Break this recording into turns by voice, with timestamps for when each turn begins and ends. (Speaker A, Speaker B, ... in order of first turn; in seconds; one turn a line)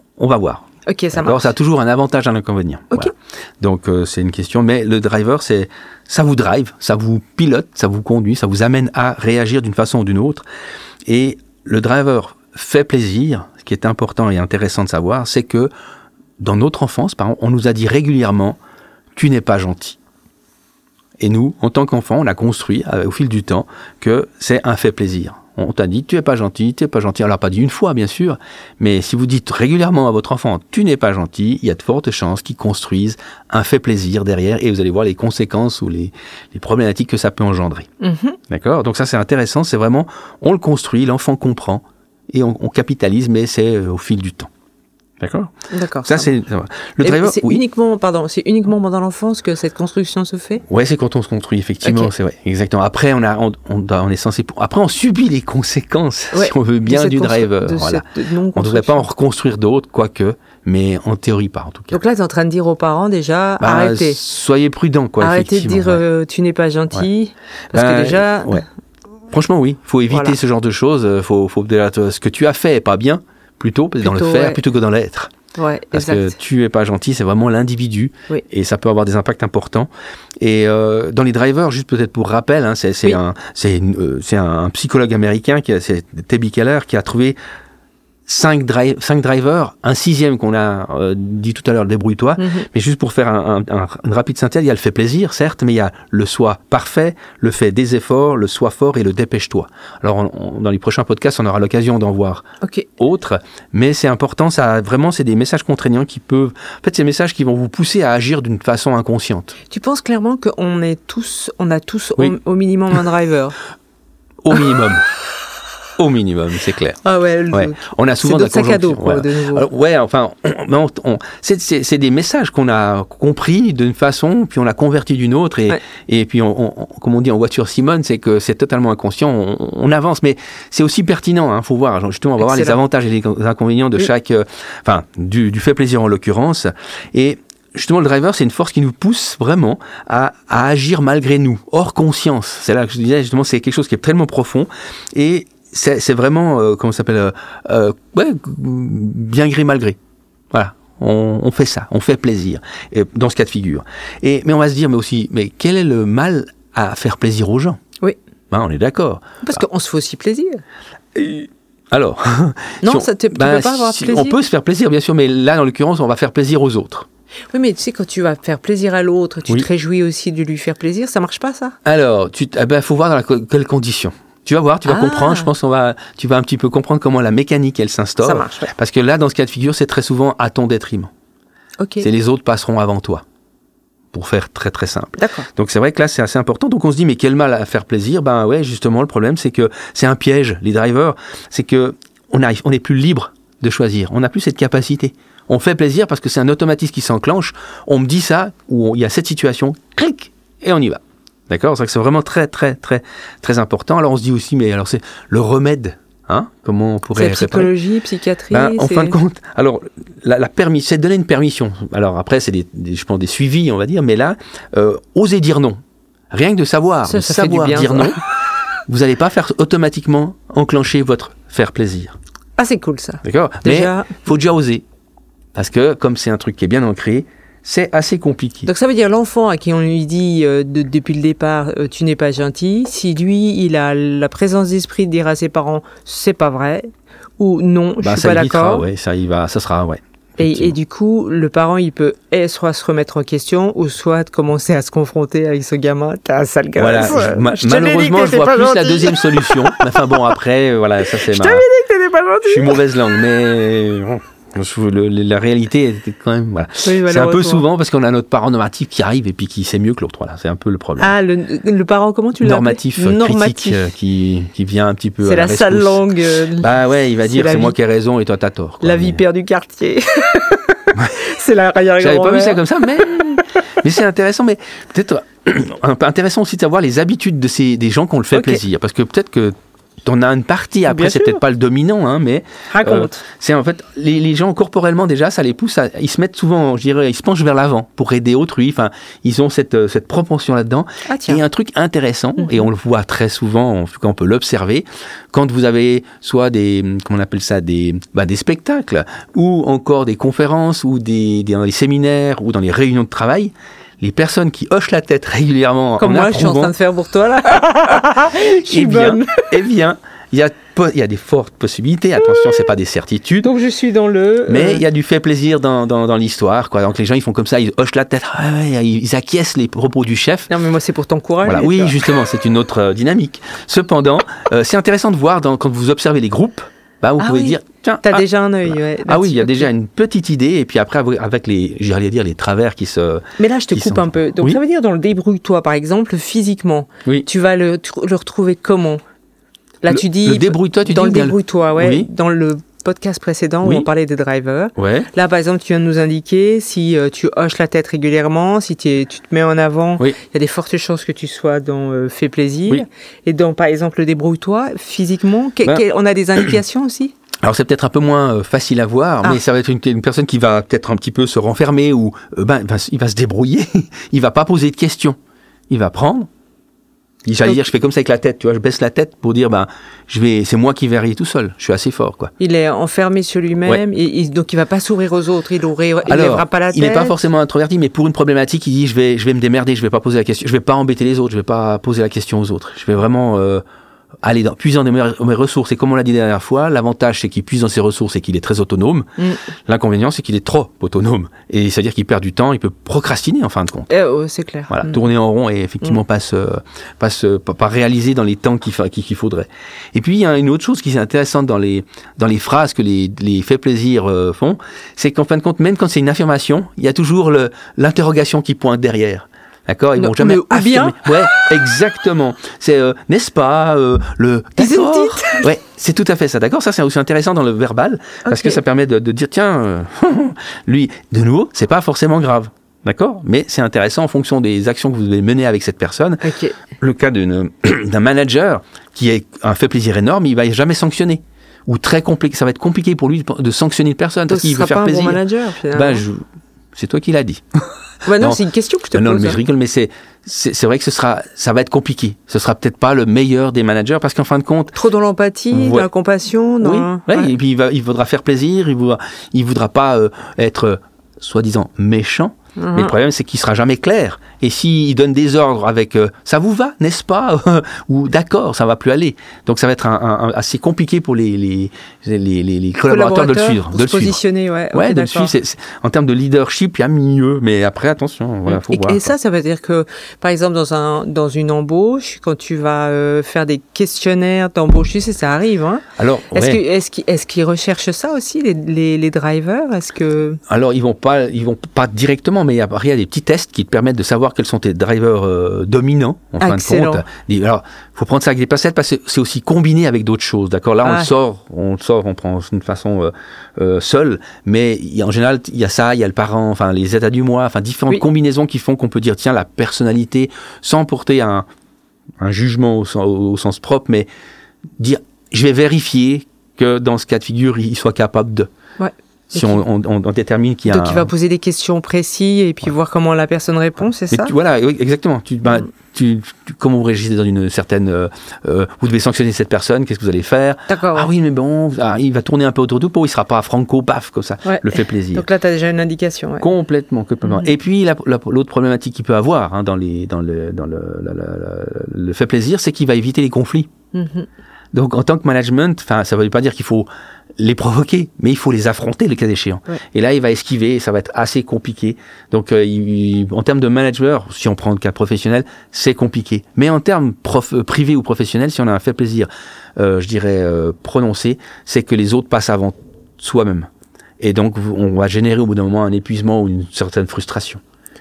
Speaker A: 0.2-10.4
Speaker B: 0.8-1.5
Speaker A: 11.1-15.7
Speaker A: 16.4-18.6
Speaker A: 19.1-20.0
Speaker A: 21.2-37.9
Speaker B: 38.0-38.4
Speaker A: 38.5-44.5
Speaker A: 45.2-45.5
Speaker B: 45.7-46.3
Speaker A: 46.0-47.6
Speaker B: 47.0-50.6
Speaker A: 50.7-62.0
Speaker B: 51.8-52.1
Speaker B: 56.3-59.0
Speaker B: 61.9-64.2
Speaker A: 63.6-66.0
Speaker B: 65.2-68.6
Speaker A: 67.7-68.6
Speaker A: 69.3-75.3
Speaker B: 70.1-70.3
Speaker B: 74.0-74.6
Speaker B: 75.5-76.3
Speaker A: 75.9-79.9
Speaker A: 80.4-87.4
Speaker A: 88.3-102.4
Speaker B: 92.4-92.7
Speaker B: 102.6-102.9
Speaker A: 103.0-109.5
Speaker B: 109.7-113.5
Speaker A: 114.4-115.0
Speaker A: 116.0-117.0
Speaker B: 117.0-119.7
Speaker A: 117.5-150.0
Speaker B: 132.4-132.8
Speaker A: 150.5-157.8
Speaker A: 158.5-159.6
Speaker B: 159.4-160.6
Speaker A: 161.1-167.1
Speaker B: 162.8-164.4
Speaker B: 167.5-171.8
Speaker A: 171.8-181.1
Speaker B: 174.8-175.5
Speaker B: 178.2-178.7
Speaker B: 181.8-182.1
Speaker A: 182.0-183.2
Speaker A: 184.1-207.7
Speaker B: 185.2-185.5
Speaker B: 207.1-209.1
Speaker A: 208.5-215.8
Speaker A: 216.3-218.2
Speaker B: 217.0-218.2
Speaker A: 218.9-222.2
Speaker B: 222.6-224.2
Speaker A: 223.2-224.8
Speaker A: 225.5-228.7
Speaker B: 228.7-238.9
Speaker A: 238.0-240.8
Speaker B: 240.4-250.2
Speaker A: 246.8-251.6
Speaker B: 251.1-252.8
Speaker A: 252.4-261.1
Speaker B: 256.8-257.6
Speaker B: 261.0-263.9
Speaker A: 262.4-269.2
Speaker B: 265.2-266.7
Speaker B: 267.2-267.7
Speaker B: 268.8-273.6
Speaker A: 272.0-306.7
Speaker B: 278.3-278.6
Speaker B: 280.9-281.4
Speaker B: 282.7-283.2
Speaker B: 291.1-291.4
Speaker B: 292.4-292.7
Speaker B: 306.0-309.5
Speaker A: 308.3-313.5
Speaker B: 313.4-314.8
Speaker A: 314.5-320.5
Speaker B: 320.5-322.0
Speaker A: 321.4-334.6
Speaker B: 327.2-329.7
Speaker B: 333.4-339.0
Speaker B: 339.8-357.1
Speaker A: 339.9-342.1
Speaker A: 343.6-343.9
Speaker A: 344.8-345.1
Speaker A: 357.4-365.2
Speaker A: 365.7-366.3
Speaker A: 367.2-372.3
Speaker B: 372.4-377.2
Speaker A: 376.1-383.6
Speaker A: 384.2-389.1
Speaker A: 389.7-393.9
Speaker B: 393.9-395.0
Speaker A: 394.7-426.2
Speaker B: 410.0-411.4
Speaker B: 414.6-415.5
Speaker B: 418.2-418.6
Speaker B: 426.2-426.6
Speaker A: 426.8-435.2
Speaker B: 434.3-436.0
Speaker A: 435.7-436.2
Speaker A: 436.7-438.4
Speaker B: 438.1-439.4
Speaker A: 438.9-444.8
Speaker B: 444.7-447.3
Speaker A: 445.5-445.9
Speaker A: 446.6-464.2
Speaker B: 452.6-452.9
Speaker B: 462.9-465.3
Speaker A: 464.7-469.1
Speaker B: 468.5-480.4
Speaker A: 476.0-476.6
Speaker A: 480.5-501.4
Speaker B: 486.4-487.0
Speaker B: 490.8-491.1
Speaker A: 502.2-504.1
Speaker A: 504.8-508.5
Speaker B: 508.8-509.6
Speaker A: 509.3-511.1
Speaker B: 510.7-514.3
Speaker A: 514.1-525.3
Speaker B: 520.7-521.1
Speaker B: 524.4-526.5
Speaker A: 526.4-533.7
Speaker B: 533.9-534.3
Speaker A: 534.7-553.7
Speaker A: 554.2-557.6